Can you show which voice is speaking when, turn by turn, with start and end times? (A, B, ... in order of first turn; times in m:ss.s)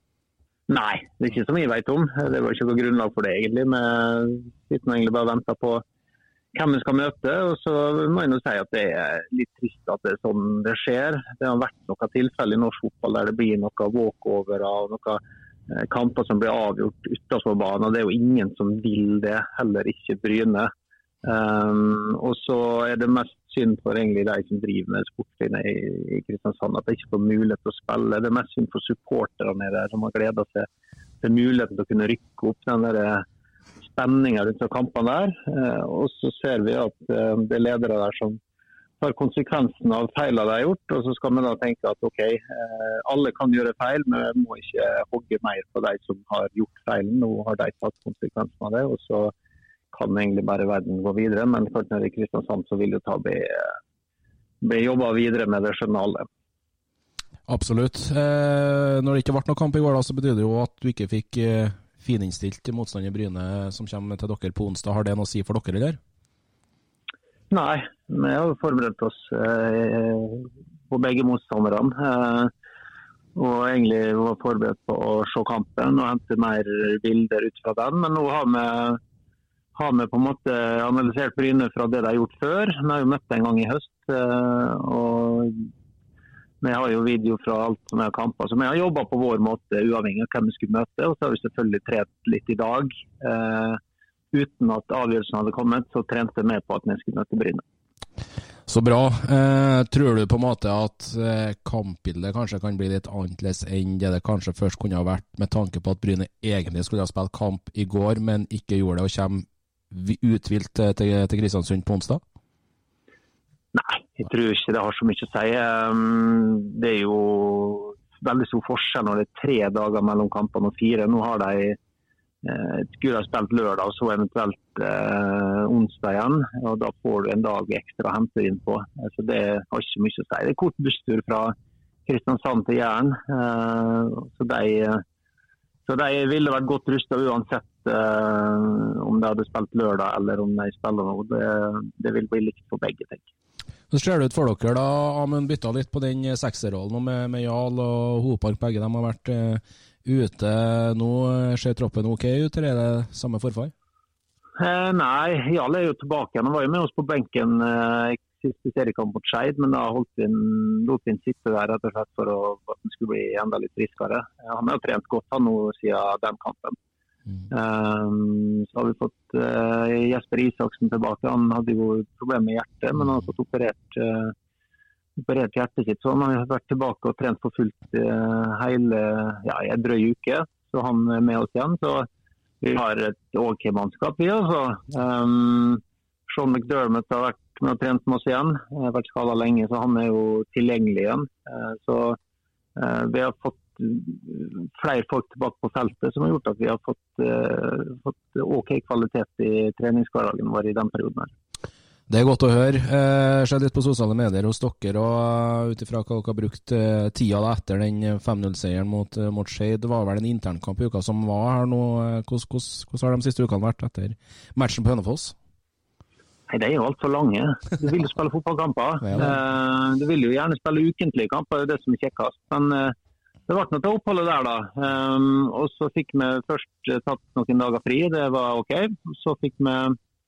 0:00.7-0:05.8 A
0:06.5-0:20.7 A
0:21.2-0:30.7 A
0:31.2-0:33.2 A
0:33.9-0:38.4 A
0:39.0-0:49.3 A
0:49.9-0:53.7 A
0:54.6-0:56.3 A
0:57.5-1:06.0 B
1:07.5-1:12.5 A
1:13.4-1:19.0 A
1:19.8-1:25.7 A
1:26.6-1:33.8 A
1:34.3-1:37.6 A
1:38.7-1:52.2 B
1:53.7-2:01.8 A
2:02.4-2:11.5 A
2:12.1-2:15.0 A
2:15.9-2:23.2 A
2:23.9-2:33.7 B
2:34.6-2:46.8 A
2:47.5-2:54.3 A
2:55.2-3:02.1 A
3:02.6-3:12.2 A
3:12.8-3:21.3 A
3:22.1-3:35.4 B
3:36.5-3:42.9 A
3:39.1-3:39.4 B
3:43.5-3:50.0 A